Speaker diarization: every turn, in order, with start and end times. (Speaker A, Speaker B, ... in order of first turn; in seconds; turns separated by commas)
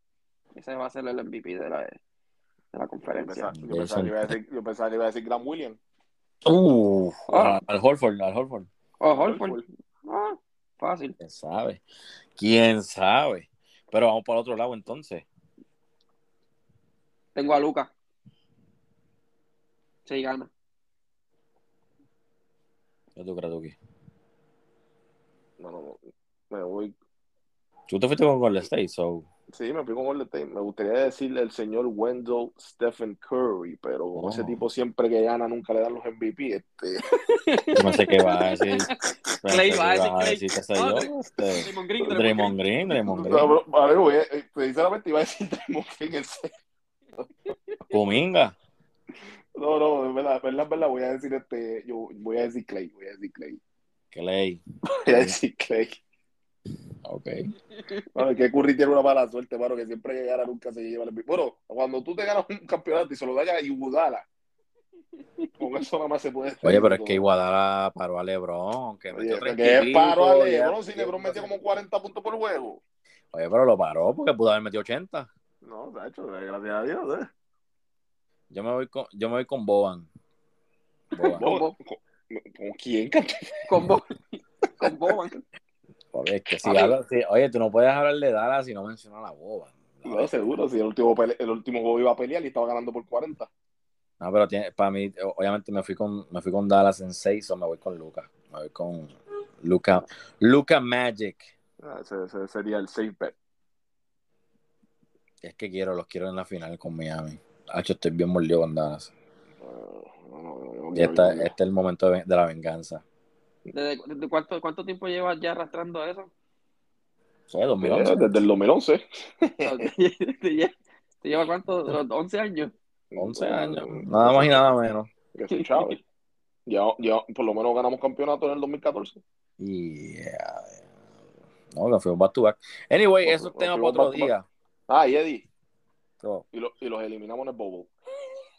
Speaker A: 0.5-2.0, Speaker A: 2.7-3.5, Speaker B: 3.0-5.8, Speaker C: 3.5-4.3, Speaker C: 6.5-8.7, Speaker A: 7.3-7.6, Speaker A: 9.0-11.2, Speaker B: 9.1-9.7, Speaker C: 11.2-11.8, Speaker C: 12.4-15.3, Speaker A: 17.4-17.9, Speaker A: 20.1-20.5, Speaker C: 23.2-23.8, Speaker B: 25.6-26.9, Speaker C: 27.9-29.3, Speaker B: 29.5-37.0, Speaker C: 34.1-34.6, Speaker A: 37.2-42.6, Speaker C: 37.7-38.9, Speaker C: 39.4-43.6, Speaker B: 42.9-46.5, Speaker A: 47.5-47.9, Speaker C: 47.9-48.6, Speaker B: 49.5-53.6, Speaker C: 54.1-55.4, Speaker B: 55.0-56.0, Speaker C: 57.0-57.5, Speaker B: 58.1-64.3, Speaker A: 65.2-65.5, Speaker B: 65.6-67.2, Speaker C: 66.6-71.5, Speaker B: 69.1-72.8, Speaker C: 73.3-75.3, Speaker B: 75.6-77.3, Speaker C: 78.5-80.1, Speaker C: 81.1-81.5, Speaker A: 81.2-81.7, Speaker B: 81.3-83.9, Speaker A: 83.7-85.4, Speaker C: 86.1-90.5, Speaker A: 86.7-86.9, Speaker B: 90.0-93.5, Speaker C: 94.2-101.5, Speaker B: 101.8-103.4, Speaker C: 105.4-109.1, Speaker B: 109.6-111.5, Speaker C: 110.9-113.0, Speaker A: 113.7-116.3, Speaker C: 117.5-118.4, Speaker B: 117.8-119.9, Speaker A: 119.6-120.7, Speaker A: 121.2-122.7, Speaker B: 123.1-124.7, Speaker C: 123.2-125.1, Speaker B: 125.3-126.0, Speaker A: 125.5-126.0, Speaker B: 126.7-129.2, Speaker C: 129.6-130.8, Speaker C: 131.7-134.5, Speaker B: 133.2-134.3, Speaker B: 134.9-135.5, Speaker B: 136.5-137.9